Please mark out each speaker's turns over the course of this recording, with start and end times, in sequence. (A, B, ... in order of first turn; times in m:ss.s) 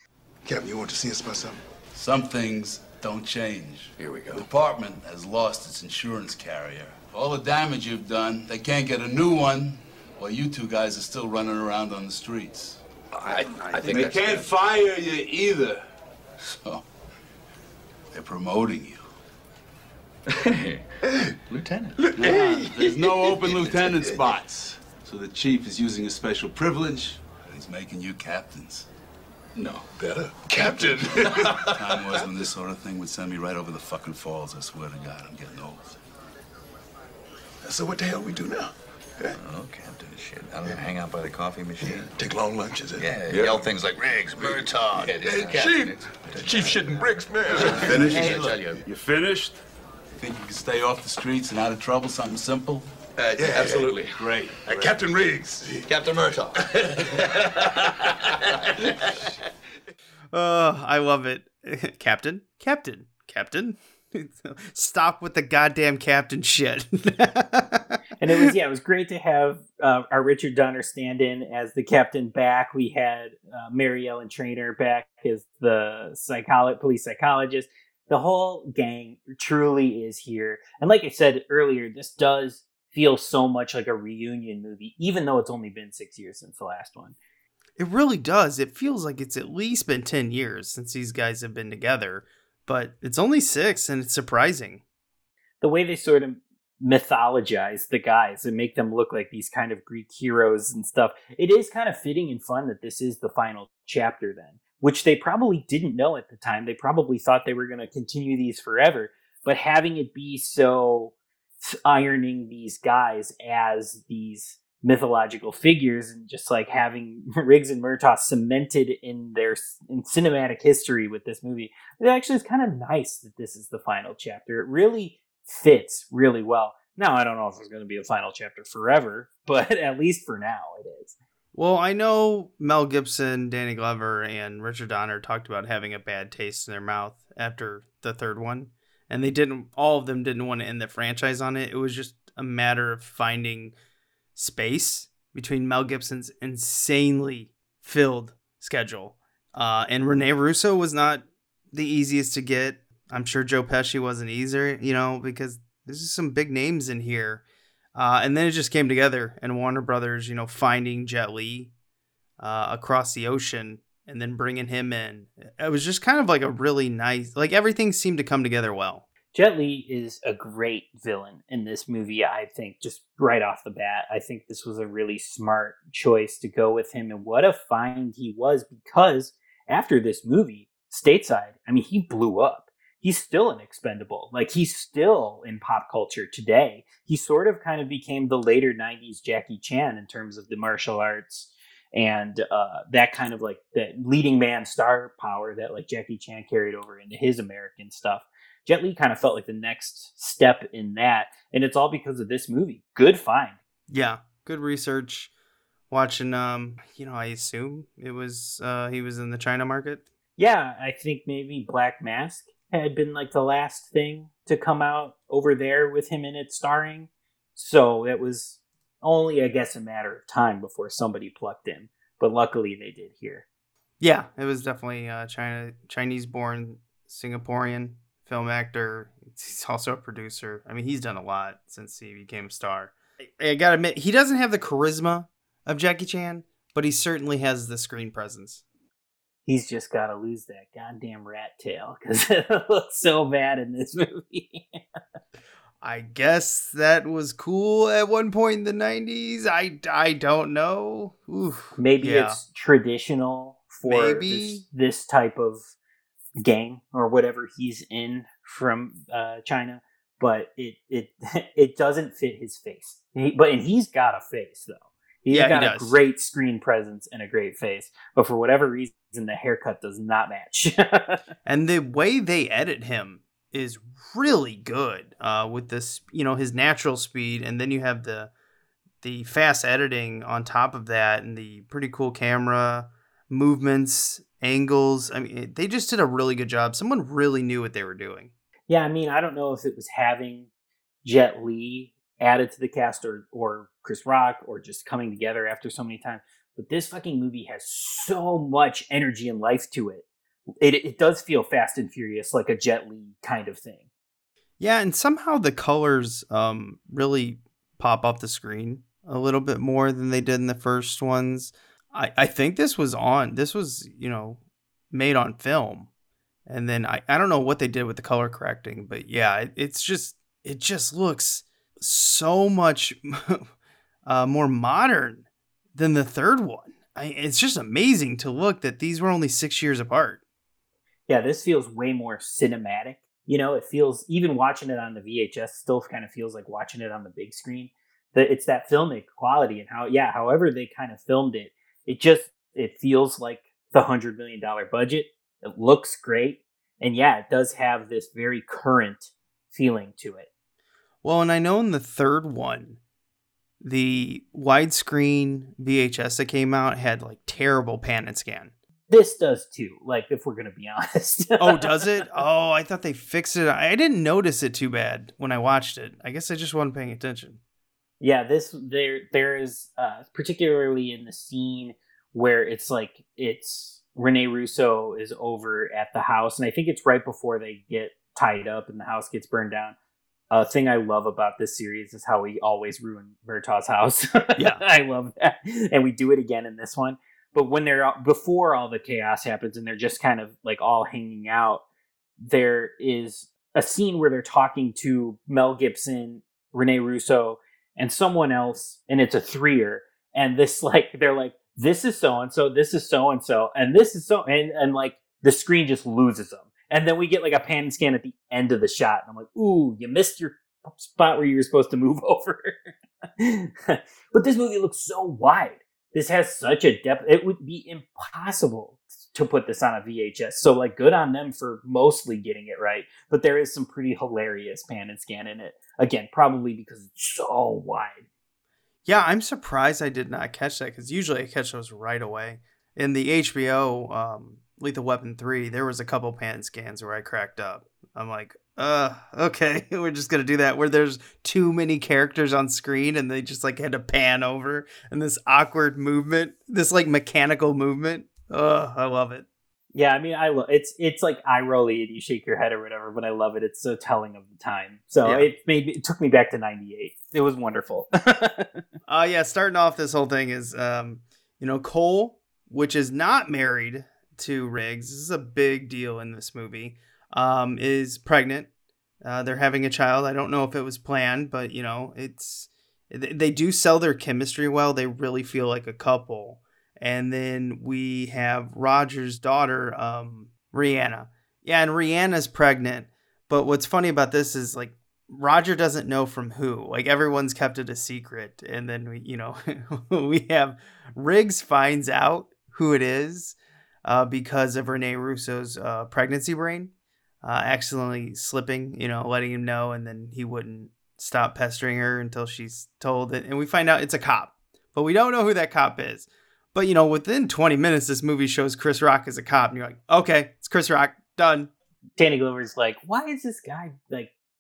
0:00.4-0:01.6 A
0:01.9-0:15.8 B
0:04.0-0:04.4 A
0:13.2-0:14.5 C
0:16.4-0:16.8 B
0:18.1-0:19.0 B
0:20.4-0:20.8 C
0:21.1-0:21.4 A
0:21.5-0:22.4 C
0:22.0-0:23.8 A
0:22.2-0:28.9 B
0:29.6-0:30.1 B
0:30.1-0:31.8 A
0:31.2-0:36.0 B
0:37.6-0:39.3 A
0:39.4-0:42.1 C
0:41.8-0:43.7 A
0:43.0-0:48.8 C
0:44.4-0:48.6 A
0:47.8-0:49.6 B
0:50.2-0:52.9 B
0:53.2-0:54.9 C
0:53.4-0:54.0 A
0:53.6-0:54.6 B
0:54.7-0:55.9 A
0:55.8-0:57.6 C
1:00.3-1:08.5 D
1:08.2-1:27.2 E
1:27.8-1:34.8 D
1:35.6-2:11.2 E
2:11.6-2:23.7 D
2:24.4-2:37.4 D
2:38.0-2:41.7 D
2:42.4-2:49.0 D
2:49.3-3:23.6 E
3:23.9-3:25.3 D
3:25.9-3:30.0 D
3:30.4-3:43.4 E
3:44.0-3:58.6 D
3:59.5-4:04.8 E
4:05.8-4:12.4 D
4:11.8-4:15.7 E
4:13.8-4:14.6 D
4:16.4-4:31.2 E
4:25.3-4:26.0 D
4:31.4-4:38.3 D
4:39.0-4:48.3 D
4:48.7-4:50.5 E
4:51.0-5:00.1 E
5:00.6-5:03.8 E
5:04.6-5:14.4 D
5:14.9-5:15.9 D
5:16.5-5:23.5 D
5:24.1-5:30.2 D
5:31.1-5:50.3 E
5:51.0-5:52.8 D
5:53.6-5:58.5 D
5:58.9-6:01.9 E
6:01.4-6:07.4 D
6:08.0-6:19.8 E
6:20.3-6:31.6 E
6:24.4-6:24.6 D
6:32.2-6:52.7 E
6:53.2-7:08.0 E
7:08.8-7:29.2 D
7:29.7-7:38.6 E
7:35.0-7:35.3 D
7:38.9-7:48.5 D
7:49.0-8:16.7 D
8:17.2-8:31.5 D
8:32.0-8:34.1 E